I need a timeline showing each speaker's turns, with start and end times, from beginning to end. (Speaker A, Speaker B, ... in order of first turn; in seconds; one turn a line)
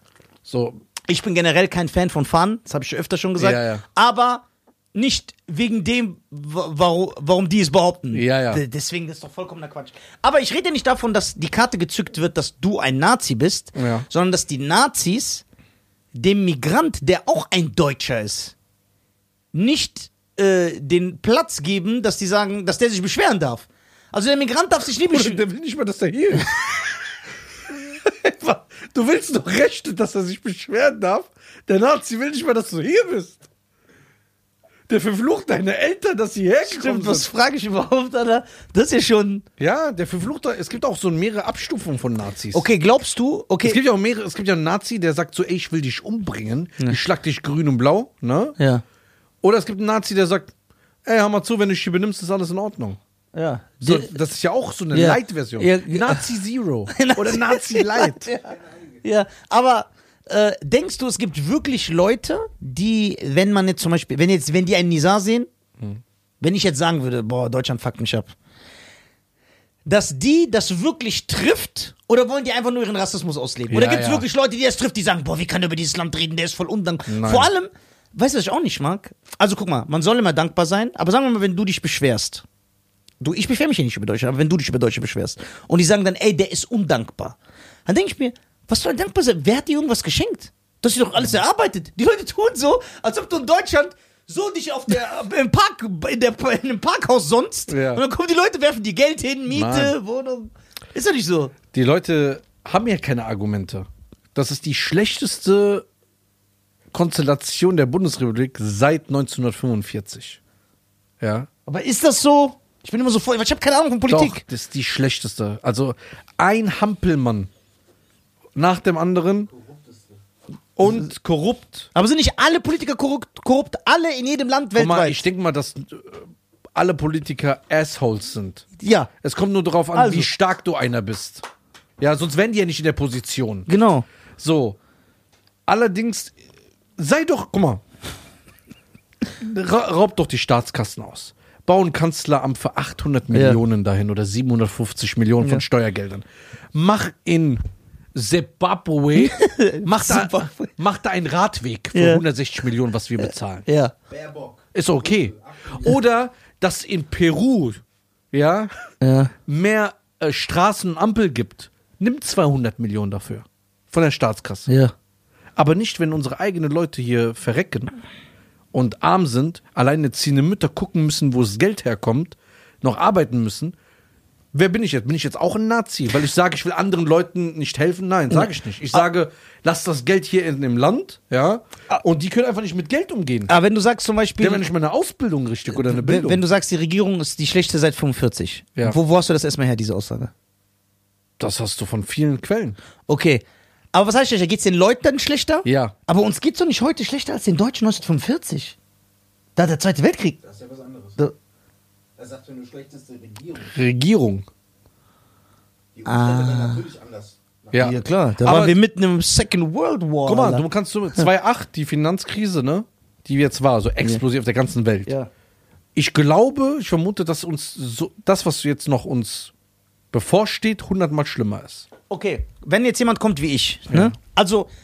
Speaker A: 0.4-0.8
Speaker B: 1.1-15.4
Speaker A: 3.4-3.8
Speaker A: 8.1-8.6
Speaker A: 13.7-14.0
Speaker B: 16.1-18.5
Speaker B: 19.5-25.4
Speaker A: 25.1-26.8
Speaker A: 27.7-33.5
Speaker A: 34.9-37.3
Speaker B: 36.6-39.4
Speaker A: 39.6-42.6
Speaker B: 42.5-43.8
Speaker A: 43.6-48.6
Speaker B: 48.6-48.8
Speaker A: 49.4-50.5
Speaker A: 51.0-53.0
Speaker B: 53.3-54.1
Speaker A: 53.8-58.3
Speaker B: 54.9-56.3
Speaker B: 56.9-65.5
Speaker C: 58.5-58.9
Speaker B: 66.4-68.3
Speaker B: 69.8-82.4
Speaker A: 73.7-74.3
Speaker A: 77.1-77.5
Speaker B: 83.2-101.5
Speaker A: 97.7-98.0
Speaker A: 99.5-99.9
Speaker A: 101.7-105.8
Speaker A: 106.9-110.4
Speaker A: 111.2-111.5
Speaker B: 111.7-114.4
Speaker A: 114.1-117.5
Speaker A: 118.5-119.5
Speaker C: 119.5-120.2
Speaker A: 120.8-121.9
Speaker B: 121.9-125.2
Speaker A: 124.8-128.7
Speaker B: 128.8-129.1
Speaker A: 129.2-131.4
Speaker B: 129.9-130.3
Speaker A: 132.0-133.7
Speaker B: 133.7-134.1
Speaker A: 134.4-134.8
Speaker A: 135.7-136.3
Speaker A: 137.0-137.8
Speaker A: 139.4-147.6
Speaker B: 143.3-143.6
Speaker A: 148.1-153.7
Speaker B: 149.1-150.7
Speaker B: 151.9-152.2
Speaker B: 153.2-153.9
Speaker C: 154.1-155.9
Speaker A: 154.7-158.7
Speaker B: 159.0-159.3
Speaker A: 159.4-164.7
Speaker B: 164.7-164.9
Speaker A: 165.6-167.9
Speaker A: 168.7-173.7
Speaker A: 174.5-183.5
Speaker B: 178.3-179.0
Speaker B: 183.5-184.6
Speaker A: 184.4-186.4
Speaker B: 185.7-190.3
Speaker A: 191.4-192.8
Speaker B: 193.1-198.8
Speaker A: 195.6-195.9
Speaker B: 199.6-200.4
Speaker C: 200.4-201.2
Speaker C: 202.2-203.8
Speaker A: 203.7-204.5
Speaker C: 205.9-207.9
Speaker B: 206.0-206.8
Speaker A: 207.7-208.8
Speaker B: 207.8-210.6
Speaker A: 210.2-215.1
Speaker A: 215.9-219.5
Speaker A: 220.1-221.9
Speaker B: 222.1-224.7